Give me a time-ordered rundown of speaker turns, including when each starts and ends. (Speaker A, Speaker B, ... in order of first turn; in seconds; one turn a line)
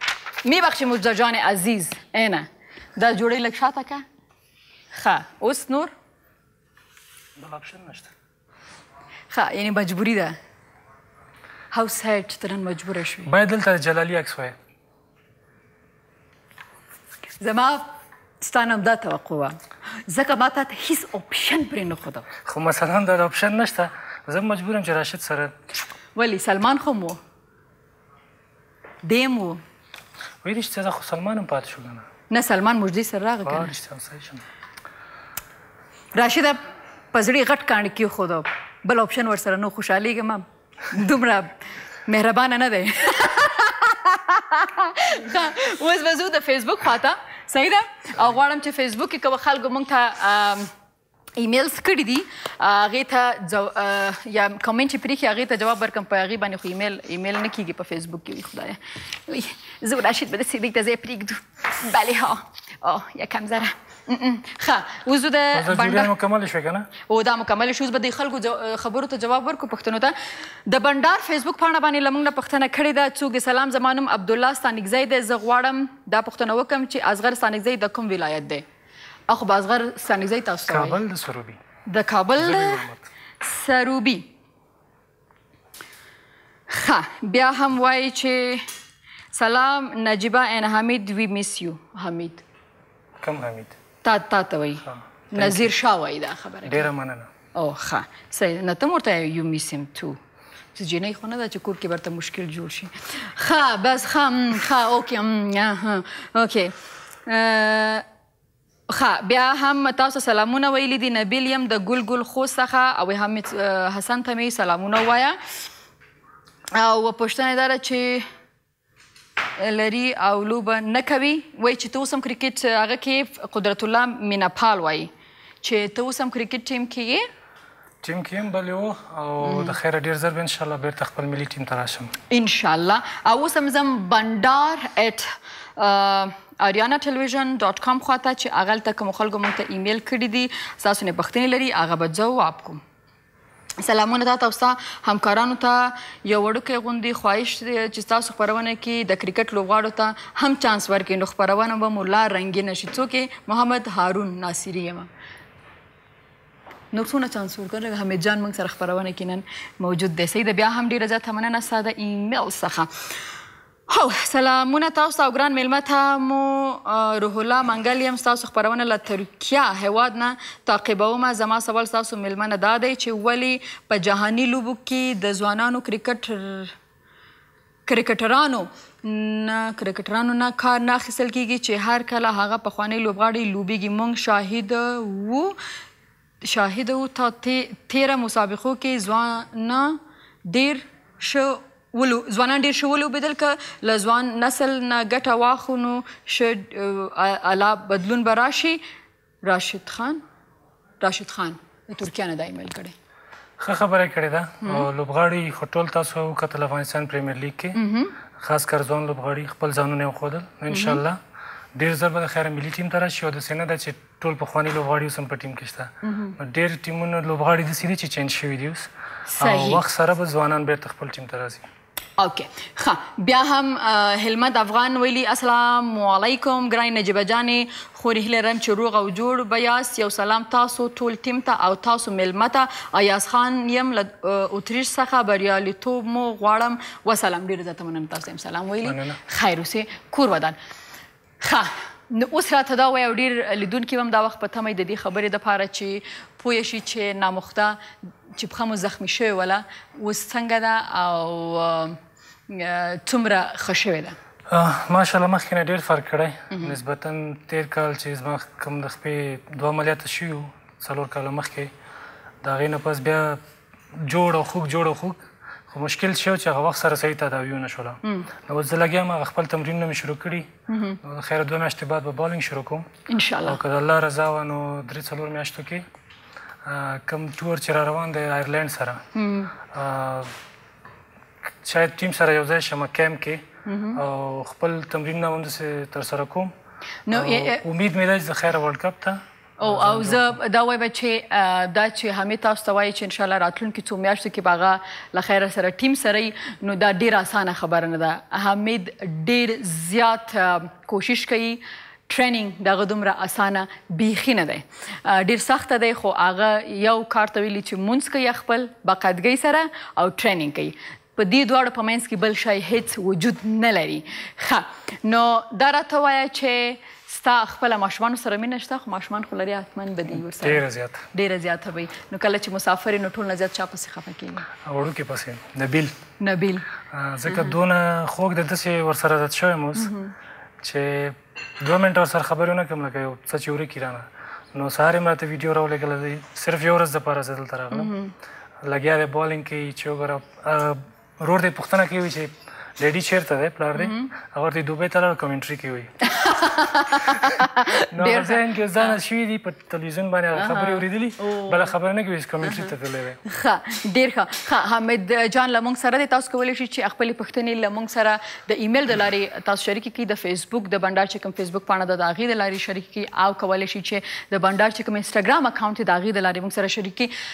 Speaker A: 0.4-4.0
Speaker A: 5.0-5.9
Speaker B: 7.4-8.1
Speaker A: 9.3-10.3
Speaker A: 11.7-13.3
Speaker B: 13.3-14.5
Speaker A: 17.4-17.9
Speaker A: 18.4-19.6
Speaker A: 20.1-22.2
Speaker B: 22.5-25.5
Speaker A: 26.2-27.2
Speaker A: 29.0-29.6
Speaker B: 30.4-32.0
Speaker A: 32.3-33.7
Speaker B: 33.4-34.4
Speaker A: 36.1-36.6
Speaker A: 37.1-41.5
Speaker A: 42.1-50.7
Speaker A: 51.4-66.1
Speaker B: 65.5-66.9
Speaker A: 67.1-70.1
Speaker A: 70.7-78.6
Speaker A: 79.3-81.0
Speaker B: 80.7-81.6
Speaker A: 81.9-82.8
Speaker B: 82.4-83.1
Speaker A: 83.4-84.3
Speaker A: 86.7-88.6
Speaker A: 89.3-92.4
Speaker B: 93.2-93.7
Speaker A: 94.0-96.8
Speaker B: 94.8-95.7
Speaker B: 96.6-97.3
Speaker A: 97.5-100.2
Speaker A: 100.7-106.7
Speaker A: 107.2-108.0
Speaker A: 108.9-115.4
Speaker A: 116.7-118.2
Speaker A: 119.6-125.1
Speaker A: 125.6-127.3
Speaker B: 128.0-132.1
Speaker A: 129.4-129.8
Speaker A: 132.3-142.8
Speaker A: 143.8-155.1
Speaker A: 156.9-162.9
Speaker A: 163.9-176.7
Speaker A: 177.9-185.6
Speaker A: 186.4-198.8
Speaker A: 199.4-200.2
Speaker A: 201.0-202.9
Speaker B: 203.6-207.8
Speaker A: 207.7-208.1
Speaker B: 208.4-211.2
Speaker A: 210.7-211.0
Speaker B: 211.8-218.9
Speaker A: 216.0-216.3
Speaker A: 219.3-219.8
Speaker B: 219.4-221.6
Speaker A: 222.2-240.6
Speaker B: 238.8-239.2
Speaker A: 241.4-247.8
Speaker A: 248.4-252.0
Speaker A: 252.5-254.2
Speaker B: 254.5-261.7
Speaker A: 256.5-256.8
Speaker B: 262.4-263.4
Speaker B: 263.9-270.5
Speaker A: 270.7-271.0
Speaker B: 271.0-272.9
Speaker A: 273.1-273.6
Speaker B: 273.4-275.8
Speaker B: 276.6-279.0
Speaker A: 279.1-279.5
Speaker B: 279.7-280.3
Speaker B: 281.6-283.4
Speaker A: 283.7-284.0
Speaker B: 283.9-286.5
Speaker A: 287.1-287.6
Speaker B: 287.1-290.4
Speaker A: 289.6-320.6
Speaker B: 320.1-321.1
Speaker A: 321.1-324.4
Speaker B: 324.6-325.9
Speaker A: 326.2-326.6
Speaker B: 326.9-329.9
Speaker A: 327.3-327.6
Speaker A: 329.8-330.1
Speaker B: 330.6-337.9
Speaker A: 337.7-338.1
Speaker B: 338.6-345.9
Speaker A: 343.8-344.1
Speaker A: 346.1-348.9
Speaker B: 347.9-353.2
Speaker A: 350.4-351.7
Speaker A: 352.4-352.7
Speaker A: 353.3-367.1